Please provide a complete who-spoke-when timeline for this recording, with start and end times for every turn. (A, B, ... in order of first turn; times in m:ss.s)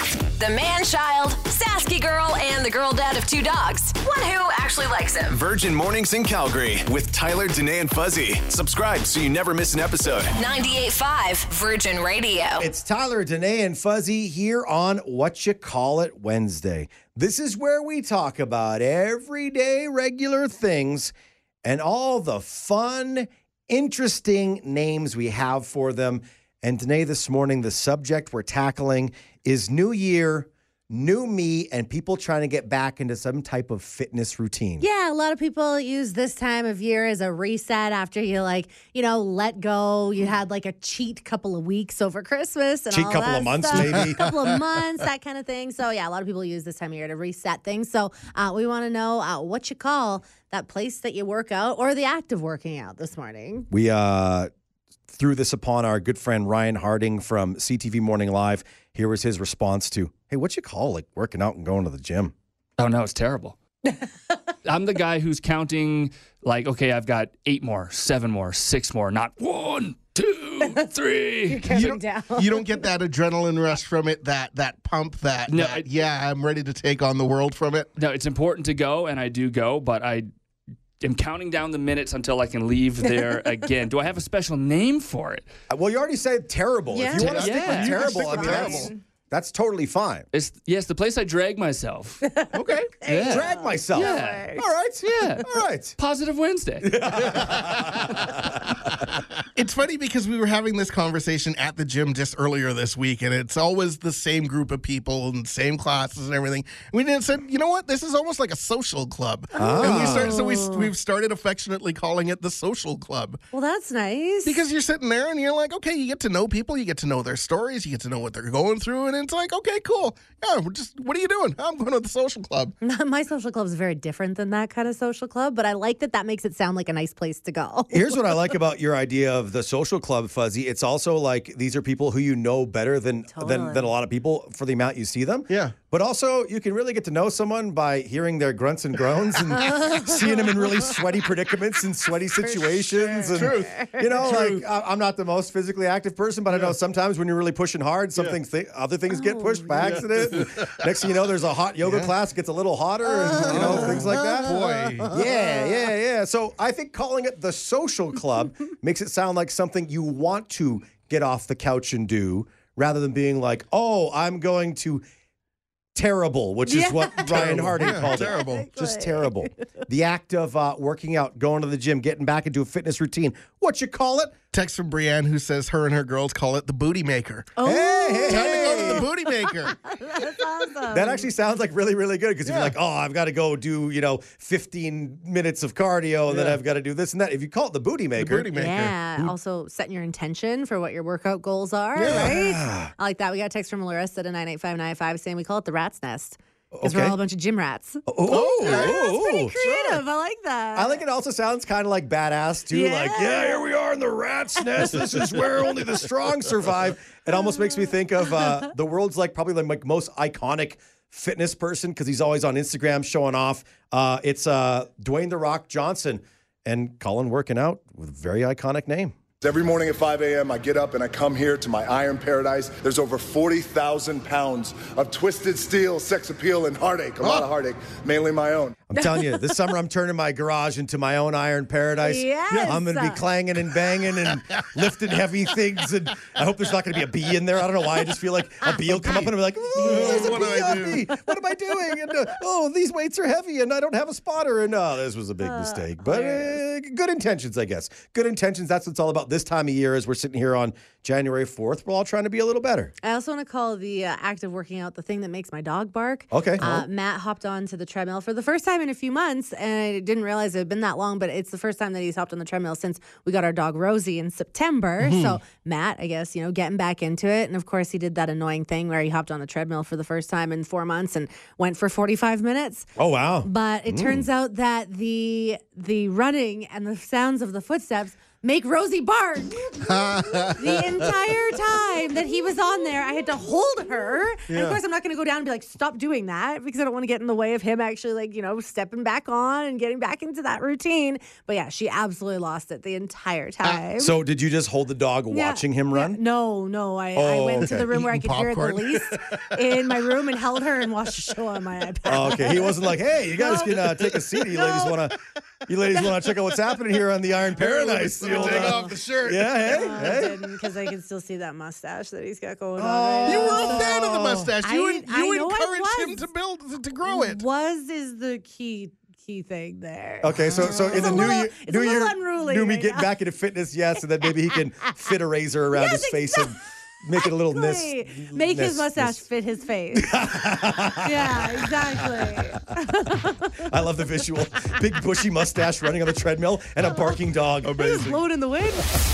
0:00.4-0:05.4 A
0:05.3-0:10.4 B
0:10.4-0:12.7 A
0:12.6-0:21.1 C
0:21.6-0:34.9 C
0:34.8-0:53.7 D
0:42.9-0:44.3 C
0:53.7-0:54.5 C
0:55.1-1:02.3 C
1:02.8-1:03.6 E
1:04.6-1:11.7 E
1:11.5-1:12.8 D
1:11.7-1:17.9 F
1:15.5-1:15.9 E
1:18.0-1:20.3 E
1:21.0-1:25.5 E
1:23.1-1:23.4 D
1:25.7-1:30.3 C
1:26.9-1:29.0 D
1:27.1-1:28.9 F
1:27.3-1:28.0 E
1:30.3-1:32.2 E
1:32.2-1:34.7 D
1:32.5-1:33.0 F
1:33.0-1:35.5 E
1:33.3-1:36.0 C
1:36.0-1:37.0 E
1:36.8-1:39.0 C
1:37.2-1:38.0 F
1:39.6-1:53.4 F
1:49.6-1:50.4 C
1:49.6-1:50.9 D
1:53.5-1:54.6 D
1:54.4-2:02.8 F
2:02.8-2:08.6 D
2:07.9-2:45.0 C
2:13.3-2:14.0 D
2:15.5-2:15.8 F
2:19.6-2:20.9 D
2:22.2-2:24.2 D
2:23.4-2:24.6 F
2:26.5-2:26.8 F
2:29.1-2:30.1 D
2:29.8-2:30.8 F
2:31.8-2:32.1 F
2:33.1-2:35.2 F
2:33.2-2:35.9 D
2:46.0-2:54.4 C
2:46.7-2:49.6 D
2:47.2-2:48.7 F
2:54.5-2:57.5 F
2:57.6-3:01.3 D
2:57.6-2:59.1 C
2:58.3-2:59.8 F
3:00.9-3:08.5 C
3:02.5-3:02.8 F
3:06.3-3:06.6 F
3:08.2-3:09.3 F
3:08.5-3:21.0 D
3:12.0-3:12.3 F
3:12.0-3:12.9 C
3:16.7-3:17.2 C
3:18.1-3:19.5 C
3:18.3-3:19.0 F
3:19.6-3:20.0 F
3:20.8-3:39.1 C
3:22.7-3:23.7 D
3:24.6-3:25.6 D
3:27.3-3:28.7 D
3:39.4-3:48.8 G
3:47.2-3:47.5 F
3:48.9-4:12.9 C
3:49.0-3:49.6 D
3:52.0-3:53.2 D
3:54.0-3:55.5 F
3:58.9-4:01.1 F
3:59.8-4:01.0 D
4:05.4-4:06.6 D
4:13.0-4:54.2 D
4:16.3-4:16.8 C
4:25.0-4:25.4 F
4:33.0-4:34.2 C
4:39.8-4:41.1 F
4:44.5-4:44.8 F
4:54.0-4:56.2 C
4:55.3-5:05.0 D
4:57.2-4:57.9 C
4:57.7-4:59.5 F
5:02.1-5:10.4 C
5:07.5-5:10.3 F
5:08.2-5:09.0 D
5:09.6-5:16.3 D
5:12.8-5:14.5 C
5:13.2-5:17.4 F
5:17.0-5:23.2 D
5:20.2-5:29.3 C
5:20.4-5:21.3 F
5:24.0-5:25.1 D
5:25.7-5:26.6 D
5:27.2-5:33.7 D
5:30.0-5:32.1 C
5:33.6-5:38.0 C
5:36.8-5:37.2 D
5:37.6-5:38.2 F
5:37.7-5:38.9 D